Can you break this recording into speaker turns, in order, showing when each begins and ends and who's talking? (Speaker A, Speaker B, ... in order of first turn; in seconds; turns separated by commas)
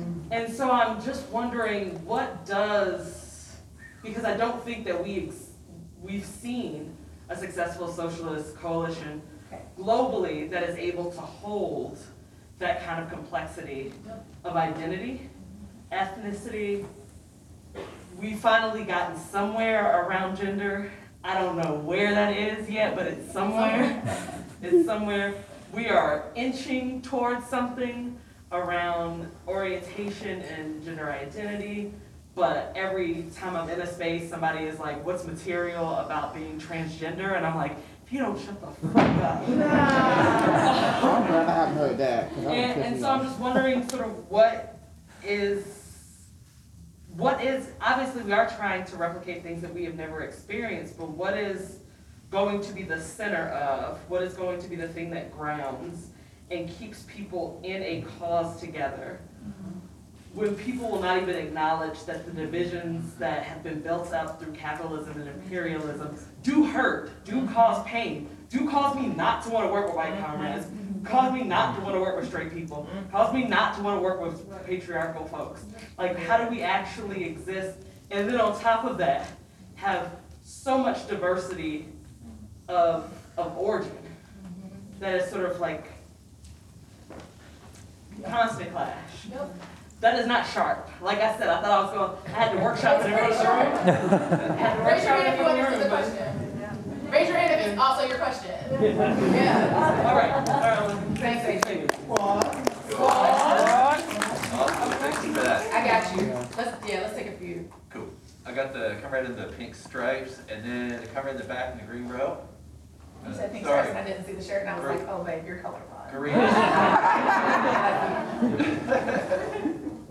Speaker A: 0.3-9.2, Speaker A: 9.7-15.2, Speaker A: 15.9-16.9, Speaker A: 18.1-24.0, Speaker B: 23.4-23.8, Speaker A: 24.6-41.2, Speaker C: 41.0-43.2, Speaker A: 42.4-46.2, Speaker A: 47.1-59.2, Speaker A: 60.3-81.9, Speaker A: 82.7-84.1, Speaker A: 85.0-86.0, Speaker A: 88.2-89.3, Speaker B: 89.2-89.5, Speaker A: 90.0-96.2, Speaker B: 92.8-94.0, Speaker B: 94.5-96.5, Speaker B: 97.0-102.1, Speaker A: 99.6-102.0, Speaker B: 102.9-107.7, Speaker A: 103.5-103.8, Speaker D: 104.4-105.9, Speaker C: 106.1-106.5, Speaker D: 107.9-112.4, Speaker D: 113.2-114.0, Speaker B: 113.2-118.4, Speaker D: 114.8-115.0, Speaker D: 116.1-117.5, Speaker D: 118.6-119.2